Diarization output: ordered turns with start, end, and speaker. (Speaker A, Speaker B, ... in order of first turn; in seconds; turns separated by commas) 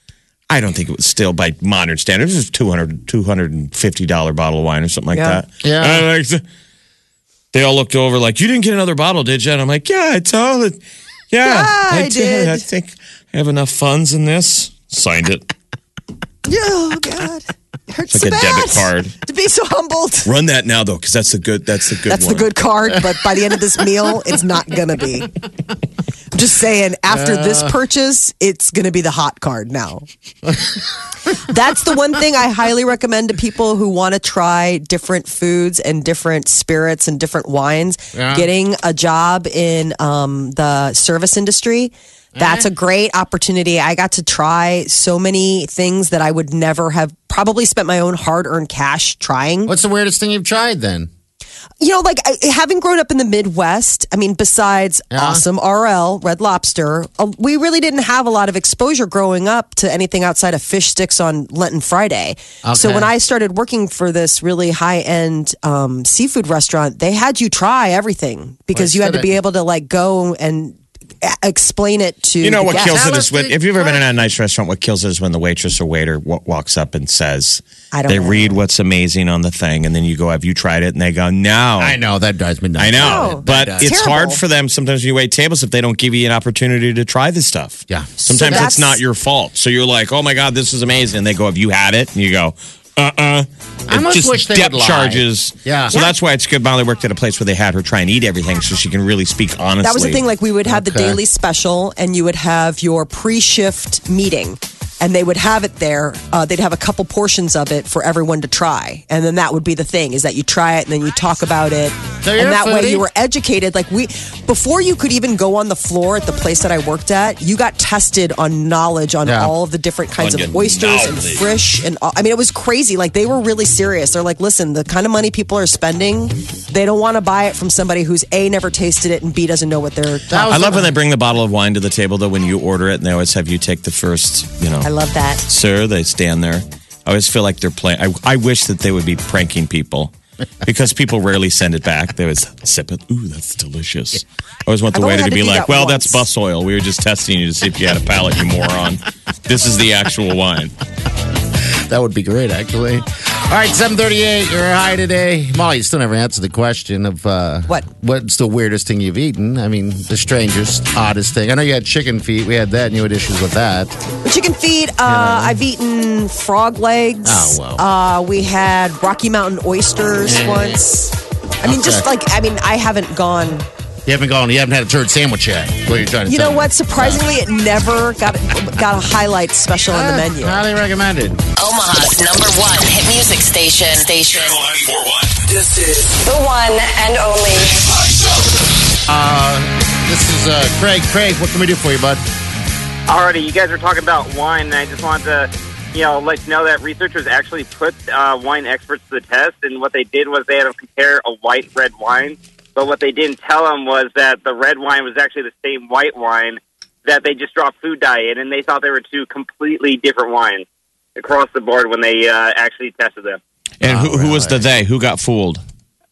Speaker A: 0.5-6.4, Speaker B: 5.1-5.4, Speaker C: 5.6-6.0, Speaker A: 7.5-10.8, Speaker A: 11.3-15.4, Speaker B: 11.4-12.6, Speaker B: 16.4-20.3, Speaker A: 18.1-19.2, Speaker A: 20.2-22.5, Speaker B: 22.1-25.3, Speaker B: 26.3-30.1, Speaker C: 27.1-27.7, Speaker C: 30.4-30.8, Speaker B: 31.3-49.7, Speaker C: 38.1-38.5, Speaker C: 42.4-42.7, Speaker C: 49.6-51.1, Speaker B: 51.8-73.0, Speaker C: 55.1-55.4, Speaker C: 62.6-63.1, Speaker C: 68.7-69.3, Speaker A: 72.4-82.0, Speaker C: 72.7-74.0, Speaker B: 77.9-78.6, Speaker C: 81.8-84.0, Speaker A: 82.8-100.2, Speaker B: 83.0-84.4, Speaker C: 87.9-88.7, Speaker B: 88.2-89.0, Speaker C: 93.9-96.0, Speaker B: 99.8-130.4, Speaker C: 100.7-101.2, Speaker C: 112.2-113.1, Speaker C: 119.2-119.5, Speaker A: 120.2-121.4, Speaker C: 130.3-130.9, Speaker A: 130.3-134.9, Speaker B: 134.8-135.4, Speaker A: 135.5-140.1, Speaker A: 140.6-150.7, Speaker B: 144.9-146.2, Speaker C: 151.7-163.9, Speaker B: 164.2-173.7, Speaker C: 165.0-165.6, Speaker C: 167.2-167.8, Speaker C: 170.2-170.8, Speaker C: 171.6-172.0, Speaker C: 174.1-177.2, Speaker B: 176.3-180.6, Speaker C: 179.9-181.4, Speaker D: 181.6-184.6, Speaker E: 184.4-185.5, Speaker F: 185.8-187.8, Speaker E: 187.8-188.6, Speaker C: 189.1-192.2, Speaker G: 193.1-210.6, Speaker G: 211.2-213.4, Speaker A: 213.8-215.6, Speaker C: 213.8-214.6